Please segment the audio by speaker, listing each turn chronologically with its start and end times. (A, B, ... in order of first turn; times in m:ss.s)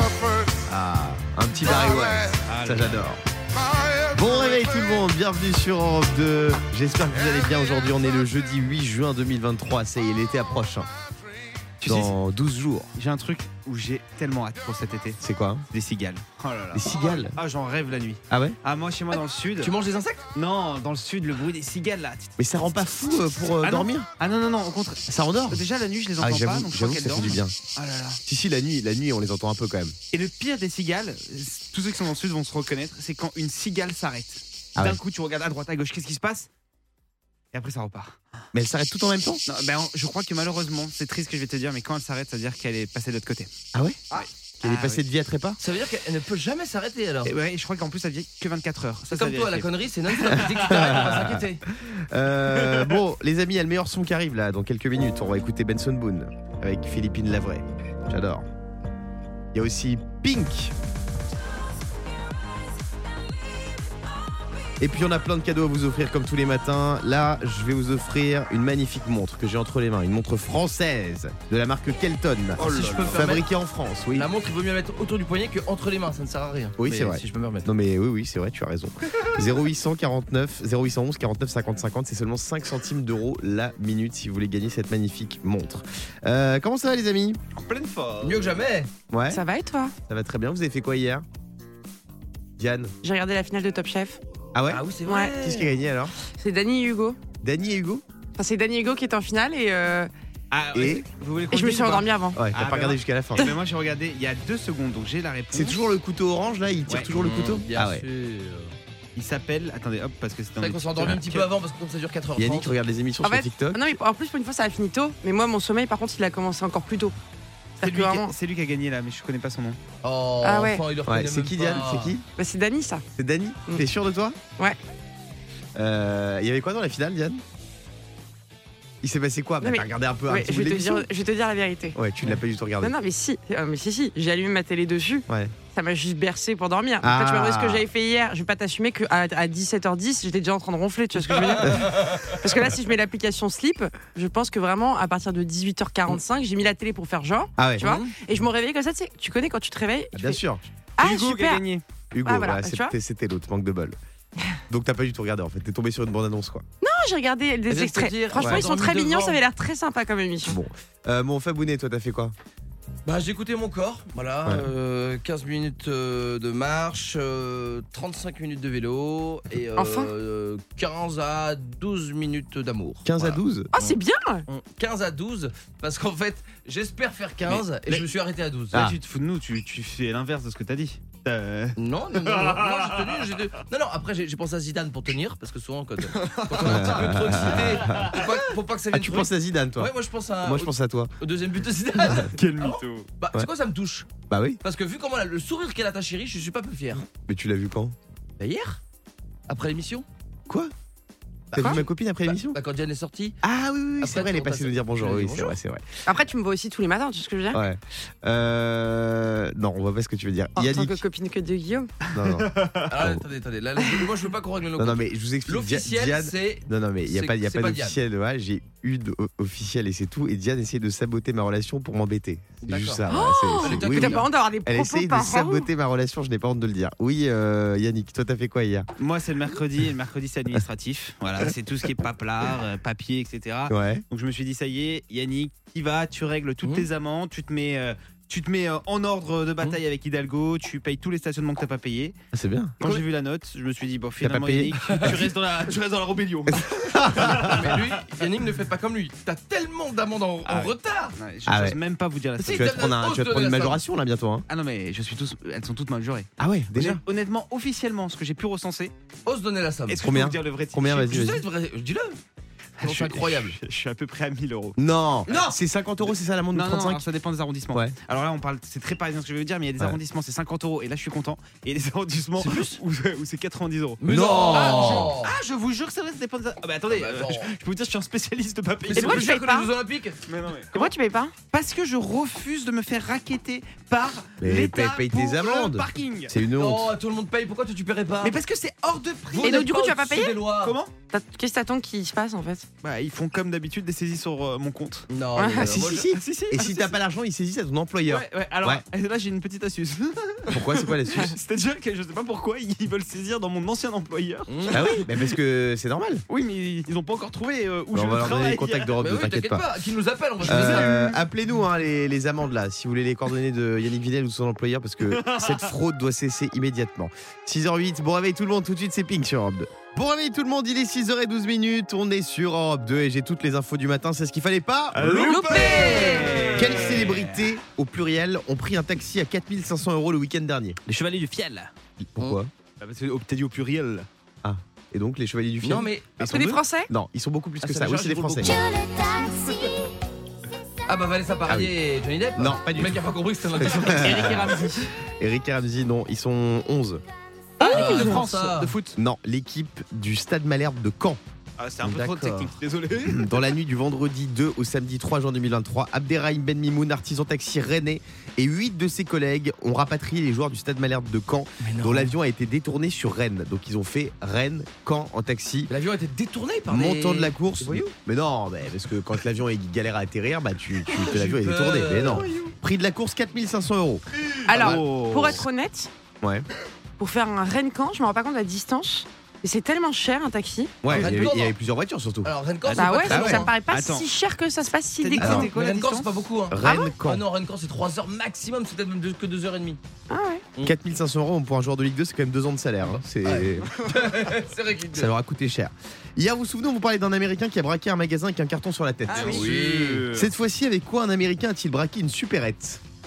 0:00.7-0:03.2 A
0:02.5-0:02.9 B
0:04.1-0:10.9 A
0:11.8-0:12.9 A
0:11.8-0:12.1 B
0:13.0-0:15.2 B
0:15.2-0:15.6 A
0:15.7-0:19.7 B
0:16.7-0:17.4 A
0:18.3-0:18.6 A
0:19.6-0:20.2 C
0:20.3-0:22.3 B
0:22.4-0:24.1 A
0:23.6-0:28.2 B
0:25.1-0:25.6 A
0:26.2-0:27.6 A
0:28.3-0:30.0 A
0:30.1-0:36.5 B
0:37.5-0:38.2 B
0:38.5-0:39.4 A
0:39.5-0:43.5 B
0:43.7-0:44.0 A
0:44.2-0:45.0 B
0:44.6-0:45.6 A
0:45.6-0:47.3 C
0:47.2-0:49.7 B
0:49.1-0:51.6 C
0:50.2-0:50.7 B
0:50.7-0:58.4 A
0:59.5-1:00.7 A
1:04.8-1:14.3 A
1:12.6-1:13.4 C
1:12.6-1:13.2 B
1:14.1-1:17.6 C
1:16.8-1:27.4 A
1:27.6-1:28.6 B
1:28.2-1:28.9 C
1:29.1-1:29.4 A
1:29.3-1:29.9 D
1:30.1-1:31.2 A
1:32.6-1:32.9 A
1:33.0-1:34.2 D
1:34.5-1:34.8 A
1:34.7-1:35.7 C
1:35.1-1:35.3 D
1:35.4-1:36.1 A
1:36.2-1:37.2 D
1:37.4-1:38.0 A
1:38.4-1:40.1 D
1:40.5-1:45.8 B
1:40.7-1:41.0 A
1:41.5-1:42.4 D
1:42.3-1:43.6 A
1:45.5-1:48.0 A
1:47.2-1:48.7 C
1:49.2-1:51.4 B
1:50.6-1:52.8 C
1:52.4-1:53.9 A
1:53.2-1:57.1 D
1:57.8-1:58.3 D
1:57.8-1:59.8 B
2:00.0-2:02.1 C
2:00.4-2:00.8 D
2:01.1-2:02.2 A
2:02.4-2:03.0 D
2:03.2-2:04.4 A
2:05.8-2:07.4 A
2:09.0-2:11.1 A
2:09.6-2:12.0 D
2:11.9-2:12.9 A
2:12.8-2:30.4 D
2:15.3-2:15.5 A
2:17.0-2:17.9 A
2:21.3-2:22.3 C
2:27.6-2:27.9 A
2:27.8-2:28.1 B
2:30.1-2:30.6 A
2:31.0-2:31.6 D
2:31.0-2:31.8 B
2:32.1-2:34.0 A
2:32.2-2:32.9 D
2:34.7-2:36.6 A
2:36.8-2:40.6 D
2:37.7-2:39.4 C
2:38.4-2:38.6 A
2:40.4-2:42.3 A
2:43.0-2:53.4 C
2:44.4-2:44.7 A
2:49.8-2:50.1 D
2:53.0-2:53.9 A
2:53.7-2:54.4 D
2:54.5-2:58.8 C
2:58.7-3:03.4 B
3:01.8-3:14.1 C
3:06.1-3:08.3 B
3:06.6-3:08.2 A
3:08.9-3:09.9 A
3:10.4-3:11.1 A
3:12.3-3:13.1 B
3:14.3-3:14.6 A
3:14.6-3:17.0 C
3:17.1-3:17.9 A
3:18.4-3:18.8 C
3:19.5-3:20.0 C
3:21.5-3:23.4 C
3:21.5-3:22.6 A
3:23.4-3:25.8 A
3:24.0-3:25.6 C
3:26.0-3:27.6 D
3:27.5-3:31.0 A
3:30.6-3:31.9 D
3:32.1-3:33.2 A
3:32.4-3:32.8 B
3:32.9-3:38.0 C
3:34.8-3:48.9 A
3:42.6-3:43.0 C
3:43.1-3:45.7 D
3:43.6-3:44.2 C
3:49.0-4:02.2 B
3:53.7-3:54.0 A
4:02.3-4:03.0 A
4:02.8-4:07.9 B
4:04.2-4:04.8 A
4:04.8-4:05.2 C
4:06.5-4:07.7 A
4:07.3-4:11.1 C
4:10.4-4:12.9 B
4:11.5-4:11.8 A
4:12.4-4:13.8 C
4:12.5-4:14.4 A
4:14.5-4:18.9 B
4:16.4-4:17.0 A
4:19.2-4:20.1 C
4:19.9-4:20.9 B
4:20.0-4:21.4 A
4:20.8-4:22.2 C
4:22.8-4:25.5 B
4:22.8-4:23.6 C
4:24.8-4:27.0 A
4:26.5-4:39.3 B
4:32.4-4:32.8 C
4:34.0-4:35.3 C
4:34.1-4:35.1 A
4:36.9-4:37.5 C
4:38.8-4:40.2 C
4:39.0-4:39.7 D
4:40.3-4:40.9 B
4:40.7-4:41.3 D
4:41.5-4:46.3 B
4:44.4-4:46.9 A
4:46.4-4:48.4 C
4:48.2-4:49.6 B
4:49.3-4:50.8 C
4:49.4-4:50.4 D
4:50.6-4:50.9 B
4:51.1-4:52.6 D
4:52.8-4:55.1 B
4:55.1-4:56.2 C
4:55.4-4:55.7 D
4:55.6-4:58.8 A
4:56.1-4:56.9 B
4:58.1-5:05.1 B
5:00.5-5:01.3 A
5:04.5-5:04.8 C
5:04.7-5:06.2 A
5:06.3-5:08.9 B
5:07.9-5:09.6 A
5:09.0-5:11.0 C
5:10.4-5:11.2 B
5:10.5-5:30.8 A
5:15.1-5:15.6 B
5:24.9-5:27.4 B
5:25.1-5:26.2 D
5:25.7-5:26.4 C
5:30.8-5:31.7 B
5:32.0-5:32.5 A
5:32.8-5:34.1 B
5:34.4-5:38.6 A
5:35.6-5:36.1 C
5:36.2-5:36.9 D
5:37.6-5:39.6 C
5:40.8-5:44.6 C
5:42.4-5:44.6 A
5:43.8-5:44.9 B
5:45.2-5:47.0 A
5:47.6-5:48.8 C
5:47.6-5:49.0 B
5:47.7-5:48.0 A
5:49.0-5:51.2 A
5:51.6-5:53.4 B
5:51.8-6:05.7 A
6:01.6-6:02.1 C
6:05.7-6:07.3 C
6:06.7-6:14.0 A
6:10.9-6:12.5 C
6:14.4-6:15.9 D
6:14.5-6:15.4 B
6:16.2-6:16.5 A
6:17.0-6:20.8 D
6:20.8-6:22.3 A
6:20.9-6:21.6 C
6:22.2-6:23.5 C
6:22.7-6:24.1 B
6:22.8-6:25.5 D
6:23.1-6:23.5 A
6:25.0-6:26.1 B
6:25.2-6:25.5 A
6:25.3-6:29.8 C
6:26.5-6:27.2 A
6:26.6-6:26.9 D
6:30.1-6:30.4 D
6:30.6-6:33.7 A
6:32.8-6:35.1 C
6:34.9-6:39.5 A
6:39.1-6:40.1 C
6:39.1-6:40.3 B
6:40.1-6:42.8 A